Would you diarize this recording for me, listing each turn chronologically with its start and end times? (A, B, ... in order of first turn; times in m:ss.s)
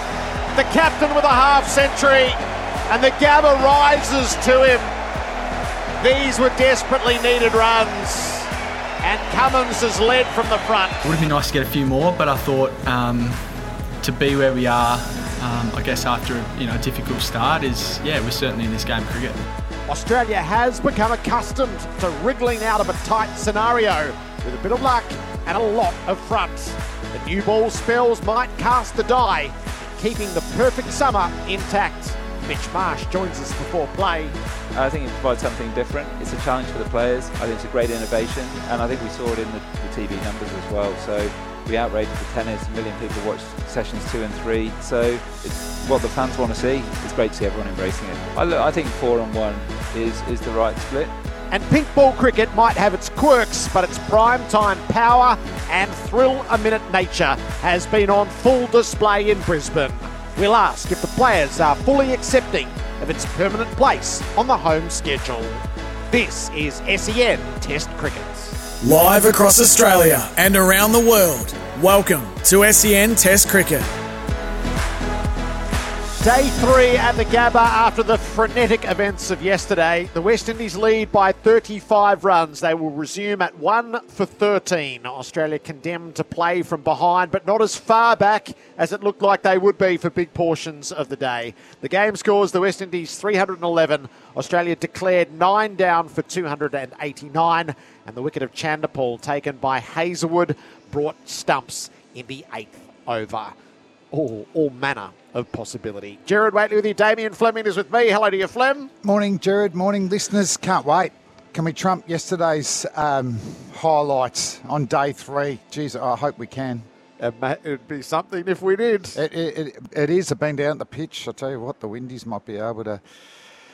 0:00.5-0:04.9 A
0:06.0-0:08.5 A
0:09.0-0:11.0 A
0:11.0-0:13.4 B
0:14.0-0:19.4 B
0:19.9-0:34.4 A
0:34.8-0:51.1 C
0:51.5-1:08.6 A
1:08.8-1:13.9 D
1:16.2-1:43.5 A
1:44.1-1:48.9 A
1:49.0-1:56.8 E
1:57.2-1:59.2 A
1:59.1-2:03.0 E